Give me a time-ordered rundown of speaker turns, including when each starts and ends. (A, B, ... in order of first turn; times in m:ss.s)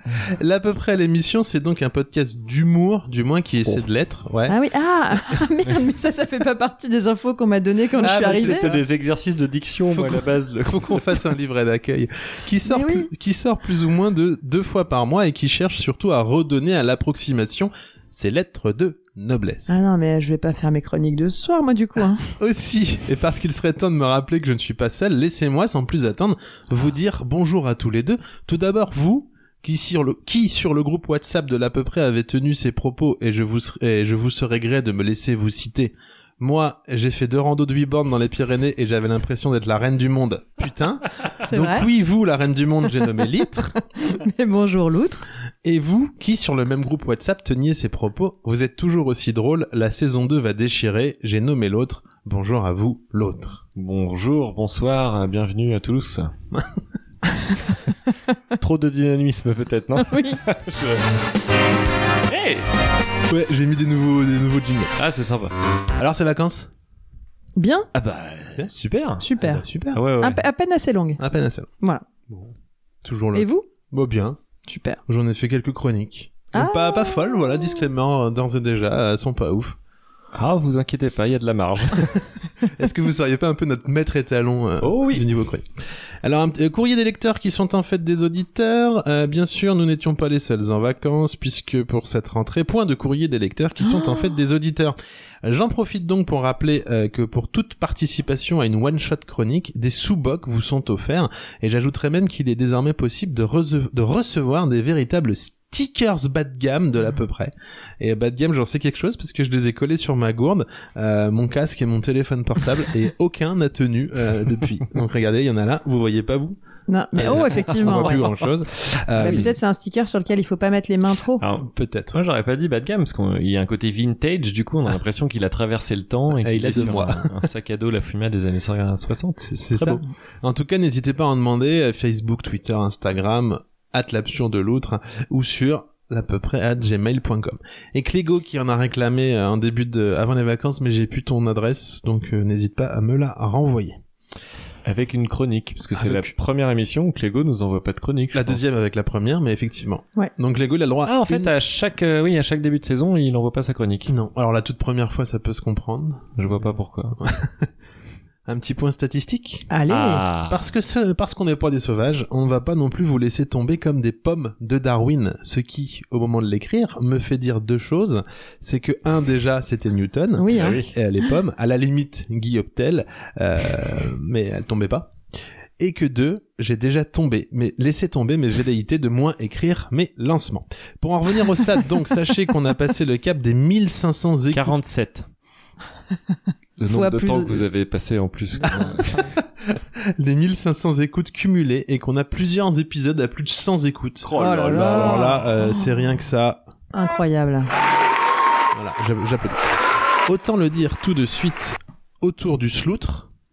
0:00.2-0:04.6 A
0:04.5-0:08.7 B
0:08.0-0:08.8 A
0:08.2-0:11.2 C
0:09.9-0:19.7 A
0:12.6-0:13.1 B
0:19.7-0:22.2 B
0:22.4-0:43.8 A
0:41.4-0:41.9 B
0:43.7-0:45.2 B
0:45.6-0:53.6 A
0:53.8-0:56.3 C
0:58.6-1:01.0 C
1:00.0-1:00.4 B
1:02.3-1:02.7 C
1:03.3-1:04.9 A
1:05.0-1:05.5 C
1:06.0-1:06.7 A
1:07.6-1:07.9 B
1:07.9-1:09.3 C
1:09.2-1:09.6 B
1:09.4-1:10.0 A
1:09.9-1:10.4 C
1:10.2-1:11.2 B
1:11.2-1:11.7 A
1:11.8-1:12.0 B
1:13.0-1:14.4 A
1:13.3-1:13.7 B
1:14.6-1:15.0 B
1:15.1-1:19.8 A
1:16.5-1:17.3 B
1:20.3-1:22.2 C
1:22.6-1:25.7 A
1:24.8-1:25.2 C
1:26.2-1:56.6 A
1:56.9-1:58.2 B
1:57.2-1:59.5 A
1:57.4-1:58.3 C
1:59.2-1:59.5 C
1:59.2-2:01.4 B
2:01.4-2:10.0 C
2:01.6-2:02.2 A
2:06.3-2:07.4 A
2:09.6-2:24.0 A
2:24.8-2:28.7 C
2:26.0-2:26.3 A
2:28.3-2:31.5 A
2:31.0-2:34.1 C
2:34.1-2:37.7 A
2:36.4-2:37.2 C
2:38.4-2:39.6 A
2:39.7-2:40.2 B
2:39.9-2:40.6 C
2:40.5-2:55.1 A
2:50.4-2:50.8 B
2:50.5-2:50.9 C
2:55.8-3:04.8 A
3:04.5-3:05.3 C
3:06.8-3:09.2 C
3:06.9-3:07.6 B
3:08.6-3:09.3 B
3:08.7-3:08.9 A
3:09.6-3:16.6 A
3:14.2-3:15.4 C
3:14.3-3:15.9 B
3:16.9-3:17.7 B
3:18.7-3:23.3 A